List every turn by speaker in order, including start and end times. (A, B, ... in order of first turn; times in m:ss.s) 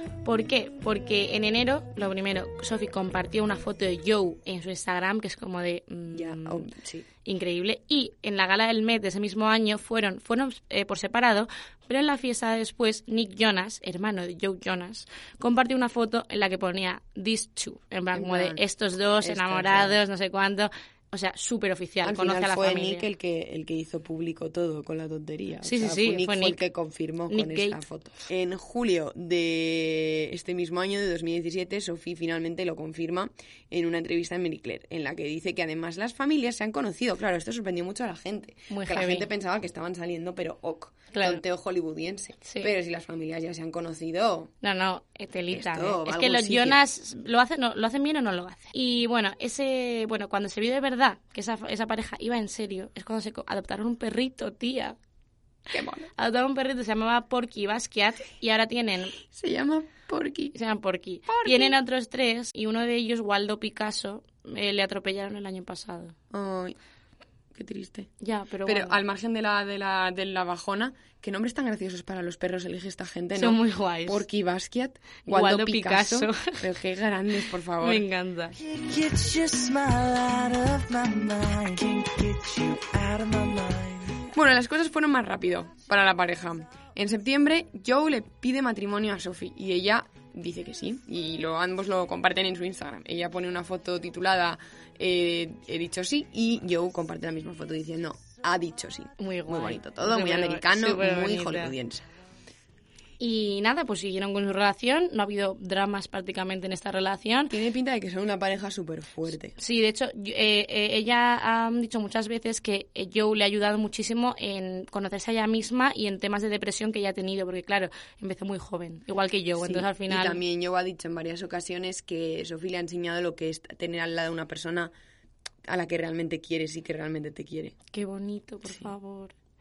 0:00.2-0:06.7 A
0:06.1-0:07.0 B
0:07.2-0:23.1 A
0:18.1-0:18.6 B
0:19.2-0:20.0 B
0:22.0-0:44.5 B
0:25.6-0:26.6 A
0:27.3-0:27.8 A
0:38.7-0:39.3 A
0:41.1-0:41.4 A
0:42.4-0:42.7 A
0:44.6-0:55.0 A
0:45.5-0:46.8 B
0:55.7-0:56.1 B
0:56.2-0:59.2 A
0:59.3-1:00.5 B
1:00.5-1:06.1 A
1:01.3-1:01.7 B
1:06.3-1:06.7 B
1:07.5-1:08.1 B
1:08.2-1:09.0 A
1:08.6-1:18.0 B
1:13.4-1:14.2 A
1:15.3-1:16.7 A
1:17.8-1:18.6 A
1:18.6-1:24.2 C
1:24.3-1:42.0 B
1:39.2-1:41.7 A
1:43.2-1:47.5 A
1:47.5-1:49.5 B
1:49.6-2:00.4 A
1:59.6-2:04.9 B
2:05.7-2:07.8 B
2:07.9-2:09.3 A